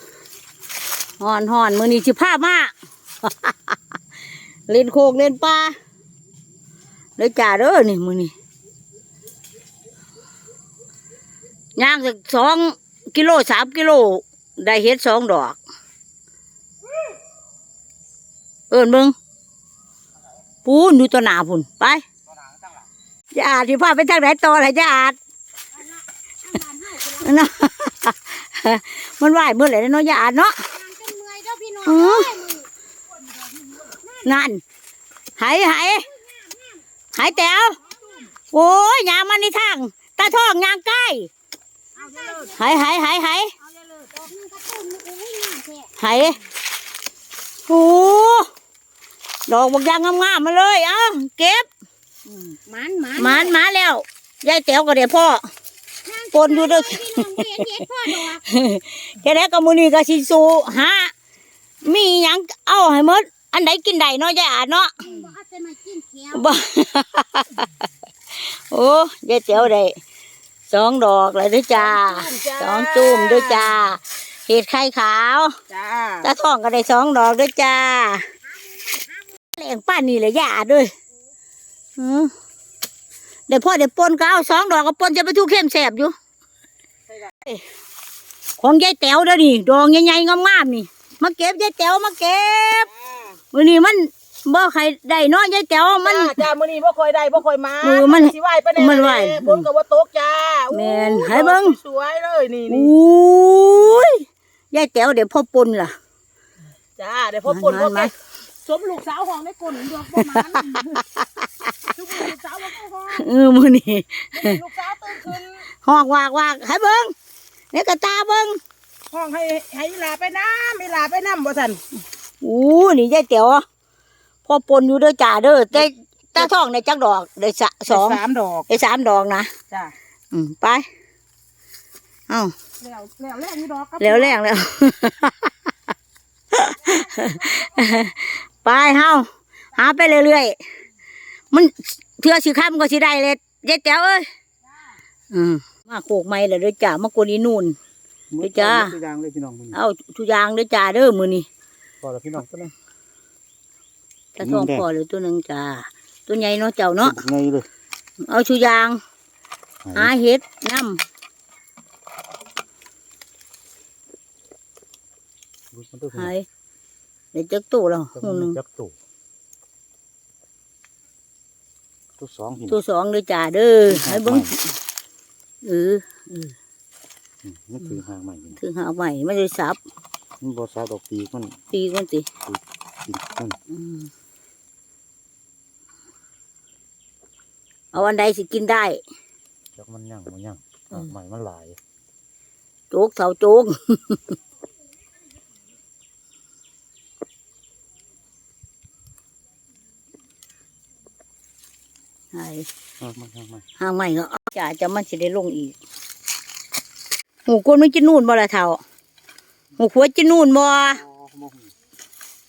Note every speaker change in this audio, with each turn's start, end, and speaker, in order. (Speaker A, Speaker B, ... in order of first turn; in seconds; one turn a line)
Speaker A: 1.2-3.8
Speaker A: 4.7-5.8
Speaker A: 7.2-8.3
Speaker A: 11.8-15.6
Speaker A: 18.7-19.1
Speaker A: 20.6-22.1
Speaker B: 22.4-22.7
Speaker A: 23.3-25.2
Speaker C: 25.7-27.4
Speaker A: 27.2-30.6
Speaker C: 30.7-32.7
Speaker A: 31.9-32.3
Speaker C: 33.9-34.3
Speaker A: 34.2-34.6
Speaker A: 35.4-36.0
Speaker C: 35.8-36.8
Speaker A: 37.1-37.8
Speaker C: 37.9-38.3
Speaker D: 37.9-38.3
Speaker A: 38.5-41.3
Speaker C: 42.0-42.9
Speaker D: 42.0-42.5
Speaker A: 42.6-43.5
Speaker C: 43.8-45.9
Speaker A: 46.0-46.4
Speaker A: 47.7-48.5
Speaker A: 49.5-51.7
Speaker D: 52.3-53.5
Speaker C: 53.0-53.5
Speaker A: 53.2-55.5
Speaker C: 56.0-58.5
Speaker A: 56.3-61.1
Speaker A: 61.8-64.9
Speaker C: 65.0-66.5
Speaker A: 66.3-67.7
Speaker A: 68.4-70.0
Speaker A: 70.7-75.5
Speaker D: 71.7-73.8
Speaker D: 75.7-76.3
Speaker A: 76.2-78.2
Speaker A: 79.5-80.9
Speaker A: 82.0-82.3
Speaker A: 83.5-86.2
Speaker A: 88.6-92.9
Speaker A: 93.5-96.4
Speaker D: 96.0-102.9
Speaker A: 97.8-99.7
Speaker A: 100.7-101.8
Speaker A: 102.7-106.0
Speaker D: 107.0-108.1
Speaker A: 107.5-108.1
Speaker D: 108.6-111.0
Speaker A: 110.2-110.5
Speaker D: 111.9-113.3
Speaker A: 113.1-114.6
Speaker D: 114.3-115.7
Speaker A: 115.8-117.1
Speaker A: 117.7-118.6
Speaker D: 119.1-121.8
Speaker A: 122.4-123.6
Speaker A: 124.5-129.5
Speaker D: 127.9-128.7
Speaker A: 130.3-130.9
Speaker A: 132.3-132.5
Speaker D: 132.8-134.4
Speaker A: 134.0-135.6
Speaker A: 136.5-140.6
Speaker D: 137.2-137.6
Speaker A: 141.5-144.3
Speaker A: 145.3-147.8
Speaker B: 148.3-149.8
Speaker A: 148.4-148.9
Speaker A: 149.7-151.5
Speaker B: 152.0-152.7
Speaker A: 154.4-157.2
Speaker B: 154.4-154.8
Speaker B: 157.0-157.7
Speaker A: 158.2-159.0
Speaker B: 159.8-160.1
Speaker A: 159.9-161.0
Speaker B: 165.7-166.3
Speaker A: 166.2-166.5
Speaker A: 167.3-168.6
Speaker B: 168.1-168.9
Speaker B: 172.2-172.8
Speaker A: 172.7-174.7
Speaker B: 173.9-174.5
Speaker A: 175.6-176.5
Speaker B: 177.4-178.6
Speaker A: 178.6-179.8
Speaker B: 180.4-181.6
Speaker A: 181.7-182.3
Speaker B: 182.4-183.6
Speaker A: 183.7-184.1
Speaker A: 187.9-189.0
Speaker B: 189.8-191.8
Speaker A: 192.9-194.2
Speaker A: 202.3-202.7
Speaker B: 203.0-203.7
Speaker A: 203.8-205.8
Speaker A: 207.5-208.8
Speaker A: 209.8-211.0
Speaker B: 210.8-211.7